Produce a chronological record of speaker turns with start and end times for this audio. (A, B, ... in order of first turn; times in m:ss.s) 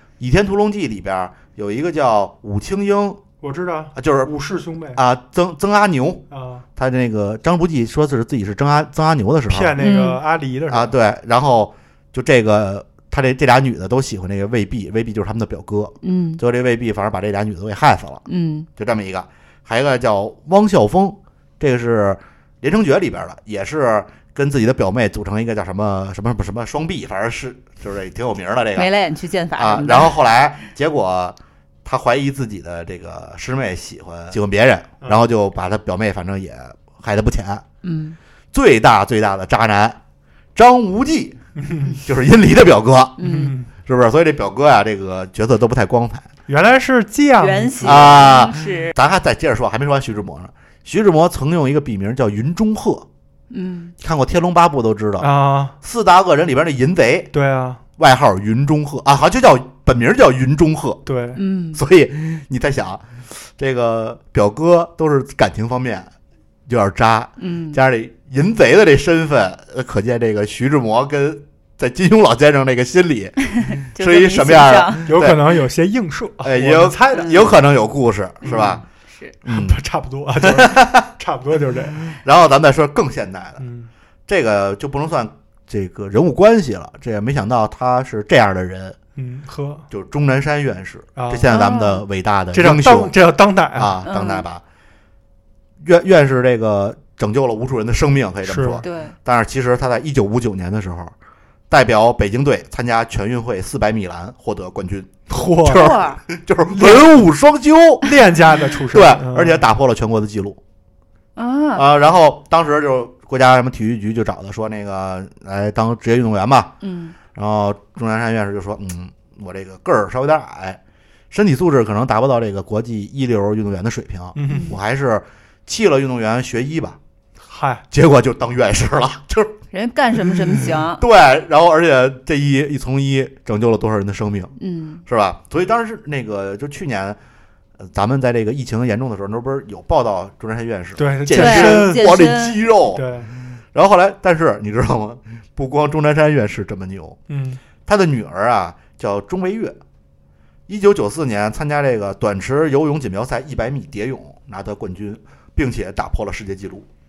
0:00.2-0:03.2 A
0:03.4-0:05.0 B
0:04.0-0:04.3 A
0:04.9-0:06.2 A
0:06.3-0:06.7 B
0:06.8-0:09.8 A
0:09.5-0:10.9 B
0:09.8-0:10.2 C
0:10.7-0:18.2 A
0:16.0-0:16.4 C
0:18.3-0:18.7 C
0:18.8-0:28.9 A
0:28.8-0:30.2 C
0:29.6-0:37.6 A
0:37.8-0:38.2 C
0:38.5-0:40.0 A
0:40.6-0:41.4 A
0:41.6-0:42.0 B
0:42.0-0:43.2 A
0:43.2-0:43.5 C
0:43.2-0:43.7 B
0:43.8-0:46.3 A
0:46.5-0:48.3 B
0:47.4-0:48.9 C
0:47.8-0:53.1 A
0:53.5-0:53.9 C
0:54.0-0:55.3 A
0:55.2-0:55.8 B
0:55.8-0:57.3 A
0:57.3-0:57.8 B
0:58.0-1:01.0 A
1:01.1-1:01.4 B
1:01.4-1:01.8 C
1:01.7-1:03.1 A
1:03.6-1:06.1 A
1:06.7-1:15.4 A
1:07.4-1:07.8 C
1:13.7-1:15.1 C
1:15.0-1:17.6 B
1:16.4-1:18.8 A
1:17.1-1:17.4 C
1:18.4-1:18.8 B
1:19.1-1:19.3 C
1:19.4-1:19.8 A
1:19.4-1:22.1 B
1:20.4-1:21.0 A
1:22.1-1:23.6 A
1:23.6-1:23.9 B
1:24.3-1:29.0 A
1:29.2-1:29.9 B
1:29.9-1:33.2 A
1:31.2-1:31.5 B
1:31.5-1:32.0 C
1:32.5-1:34.0 B
1:33.8-1:34.6 A
1:34.0-1:34.4 C
1:35.8-1:41.1 A
1:38.4-1:38.8 B
1:38.8-1:39.2 C
1:41.7-1:48.1 A
1:45.3-1:45.9 B
1:45.7-1:46.2 C
1:46.7-1:47.2 B
1:48.0-1:49.6 B
1:48.9-1:50.6 A
1:51.4-1:51.8 C
1:51.8-1:56.7 A
1:56.8-1:57.2 C
1:57.3-2:00.8 A
2:01.3-2:07.0 A
2:04.4-2:04.8 B
2:04.5-2:04.8 C
2:07.5-2:07.9 B
2:07.9-2:09.6 A
2:09.7-2:11.0 C
2:10.9-2:14.5 A
2:14.6-2:15.0 C
2:15.1-2:17.2 A
2:17.8-2:27.2 A
2:21.0-2:22.1 B
2:21.3-2:22.6 C
2:22.9-2:23.3 B
2:27.3-2:27.6 B
2:27.9-2:29.8 A
2:30.7-2:36.9 A